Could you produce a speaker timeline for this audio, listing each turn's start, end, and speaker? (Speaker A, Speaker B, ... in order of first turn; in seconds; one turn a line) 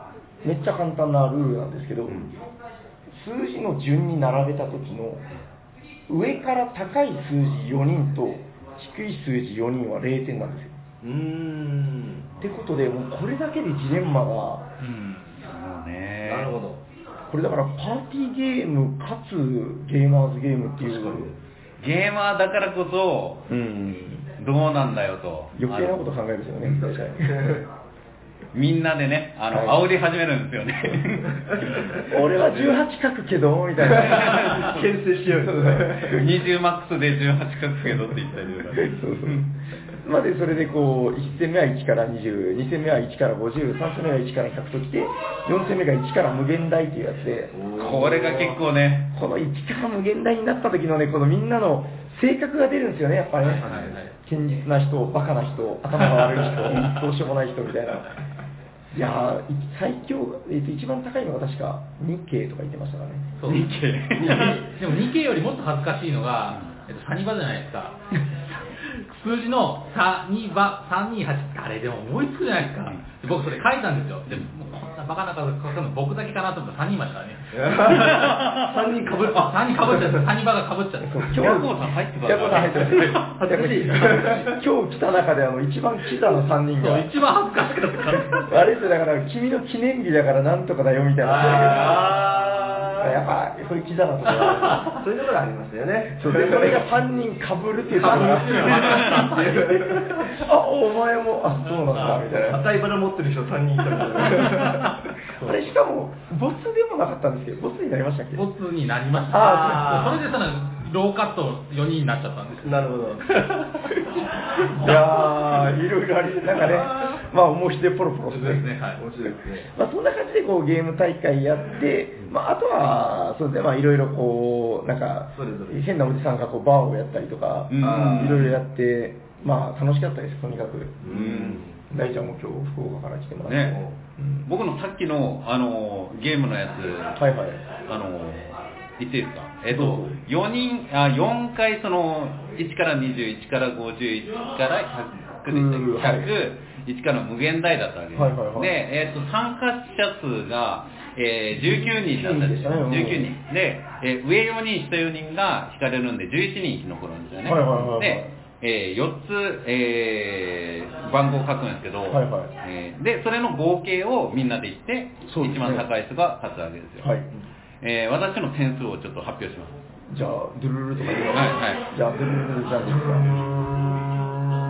Speaker A: 0.4-2.3
Speaker A: 3.1-5.2
Speaker A: 6.1-10.8
Speaker B: 11.0-12.3
Speaker A: 12.4-14.7
Speaker C: 14.8-15.4
Speaker D: 15.4-16.6
Speaker B: 16.2-16.8
Speaker A: 17.3-21.3
Speaker B: 20.8-21.4
Speaker D: 21.8-26.0
Speaker A: 25.5-27.6
Speaker B: 26.8-27.6
Speaker D: 28.5-32.8
Speaker A: 29.5-29.9
Speaker A: 32.0-34.6
Speaker D: 33.8-35.0
Speaker B: 33.9-36.3
Speaker A: 35.3-36.2
Speaker D: 36.1-39.3
Speaker A: 38.8-47.6
Speaker B: 47.5-48.6
Speaker D: 47.7-49.1
Speaker A: 49.1-58.1
Speaker C: 53.4-54.1
Speaker B: 53.6-53.9
Speaker C: 56.0-57.0
Speaker A: 58.9-63.4
Speaker C: 63.4-68.0
Speaker D: 63.5-64.6
Speaker B: 64.2-64.7
Speaker C: 68.8-81.4
Speaker B: 77.5-80.3
Speaker A: 81.0-87.1
Speaker D: 81.3-83.3
Speaker C: 82.7-83.2
Speaker B: 83.2-84.6
Speaker C: 86.8-88.5
Speaker A: 88.3-92.1
Speaker B: 91.2-93.1
Speaker C: 91.5-92.3
Speaker A: 93.0-94.9
Speaker C: 94.4-94.9
Speaker B: 94.9-96.9
Speaker A: 96.2-99.0
Speaker C: 98.0-100.3
Speaker B: 98.0-100.3
Speaker D: 98.7-99.3
Speaker A: 100.3-102.7
Speaker C: 101.9-102.2
Speaker B: 102.3-105.1
Speaker C: 104.6-104.9
Speaker A: 105.4-108.5
Speaker C: 108.3-114.1
Speaker A: 109.3-110.2
Speaker B: 109.3-110.1
Speaker B: 112.6-113.3
Speaker C: 114.6-115.6
Speaker A: 114.7-118.7
Speaker C: 116.6-117.1
Speaker C: 118.3-119.0
Speaker B: 119.0-119.7
Speaker A: 119.6-131.2
Speaker B: 125.3-125.8
Speaker D: 127.7-128.6
Speaker B: 127.8-128.6
Speaker B: 131.0-131.8
Speaker D: 131.1-131.6
Speaker A: 131.9-134.5
Speaker D: 133.4-133.8
Speaker B: 133.7-133.9
Speaker D: 134.4-137.2
Speaker A: 137.2-137.6
Speaker D: 137.8-167.1
Speaker A: 139.7-140.2
Speaker A: 145.5-146.3
Speaker A: 148.1-148.7
Speaker A: 151.6-153.3
Speaker A: 157.4-158.3
Speaker A: 162.1-162.5
Speaker A: 165.3-165.9
Speaker A: 167.0-167.3
Speaker D: 167.8-169.7
Speaker A: 170.1-173.4
Speaker D: 171.3-171.8